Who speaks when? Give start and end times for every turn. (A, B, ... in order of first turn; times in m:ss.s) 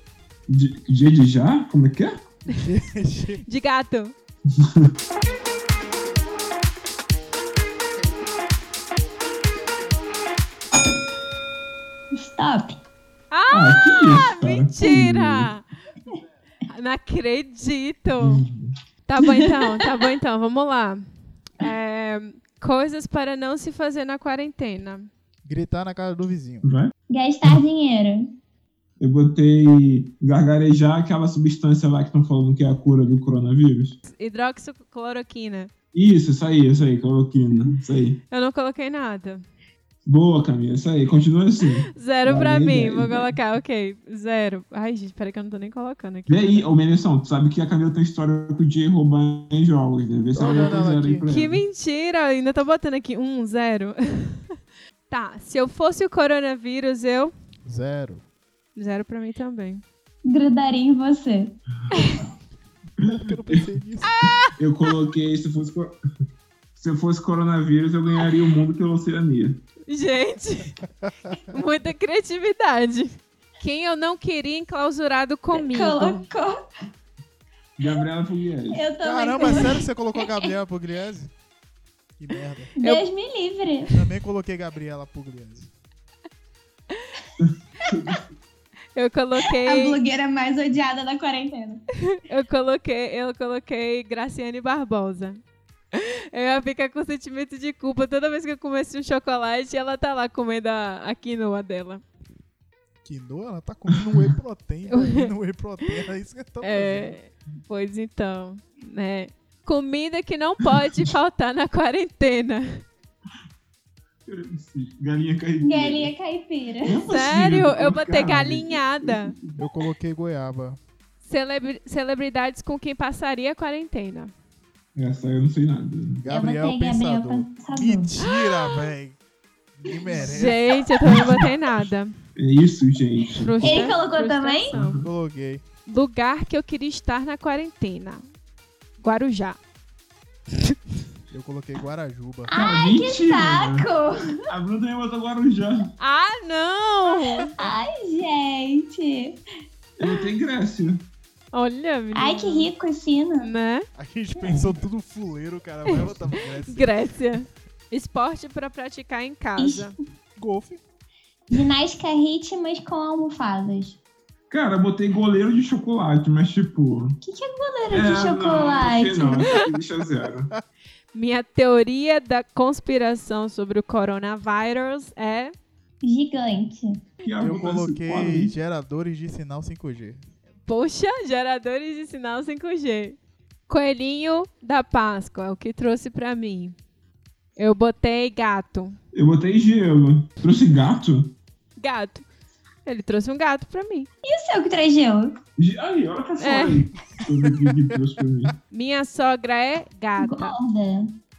0:00.5-0:02.2 A
0:02.4-0:03.4 B
0:03.4-0:04.1 C
0:04.5-0:04.9 A
0:12.1-0:12.8 D
0:13.3-0:15.6 C
0:13.5-0:15.5 A
0:16.7-0:18.4 C
0:18.2-0:18.7 A
0:19.1-0:21.1 C
0:19.2-0:19.7 D
0:21.6-0:25.1 C
0:25.4-0:26.7 B
0:26.6-0:26.9 A
0:27.1-0:28.3 D
0:29.0-0:34.0 A
0:34.0-0:35.7 C
0:35.9-0:38.2 A
0:38.3-0:39.4 C
0:40.1-0:43.3 A
0:41.9-0:46.6 C
0:46.3-0:51.6 A
0:50.3-0:51.3 B
0:51.3-0:54.6 C
0:55.1-0:57.3 C
0:57.6-0:58.2 B
0:58.8-0:59.8 C
1:00.2-1:01.5 D
1:01.9-1:02.3 A
1:01.9-1:02.2 C
1:03.0-1:03.6 A
1:03.0-1:04.2 B
1:04.0-1:04.5 C
1:04.5-1:06.0 A
1:06.8-1:09.6 A
1:09.9-1:10.8 C
1:11.0-1:11.3 B
1:11.5-1:16.2 C
1:15.5-1:16.6 D
1:17.8-1:18.8 A
1:18.7-1:20.5 D
1:19.0-1:21.3 B
1:22.2-1:22.7 B
1:22.8-1:23.9 D
1:23.9-1:25.7 B
1:27.4-1:28.2 A
1:29.0-1:30.0 C
1:29.6-1:31.8 D
1:32.1-1:35.4 C
1:35.9-1:42.0 C
1:43.0-1:47.2 B
1:44.9-1:45.3 C
1:46.6-1:52.8 C
1:54.3-1:56.1 A
1:55.6-1:57.0 D
1:56.8-1:59.6 A
1:57.1-1:59.3 C
1:59.6-2:00.8 B
2:01.2-2:04.3 C
2:05.0-2:06.2 A
2:06.2-2:09.2 B
2:06.3-2:08.1 D
2:08.2-2:08.8 C
2:09.8-2:10.8 B
2:10.2-2:12.2 C
2:11.0-2:11.5 A
2:12.4-2:13.9 A
2:13.4-2:15.0 C
2:13.6-2:14.7 D
2:14.7-2:15.0 A
2:15.0-2:15.6 B
2:15.9-2:18.2 C
2:19.0-2:19.6 C
2:21.3-2:22.5 B
2:22.5-2:24.4 D
2:22.5-2:23.9 A
2:24.4-2:25.9 A
2:26.0-2:27.5 C
2:27.6-2:29.4 D
2:30.0-2:31.1 A
2:31.5-2:32.7 C
2:32.1-2:33.5 D
2:33.4-2:33.9 C
2:33.9-2:36.9 B
2:34.4-2:34.7 A
2:36.6-2:39.9 C
2:39.6-2:39.9 D
2:40.4-2:40.8 B
2:41.5-2:44.0 D
2:44.5-2:47.2 A
2:47.2-2:49.6 D
2:47.9-2:50.5 A
2:49.6-2:50.6 B
2:51.1-2:55.5 C
2:56.0-2:57.0 D
2:57.2-2:58.5 A
2:57.4-3:00.2 B
3:00.6-3:06.8 C
3:07.6-3:09.0 C
3:09.1-3:11.3 A
3:11.8-3:12.3 C
3:12.8-3:14.1 C
3:14.2-3:15.4 D
3:15.6-3:18.6 A
3:16.4-3:16.9 C
3:17.3-3:18.0 B
3:18.7-3:20.6 C
3:20.2-3:21.1 D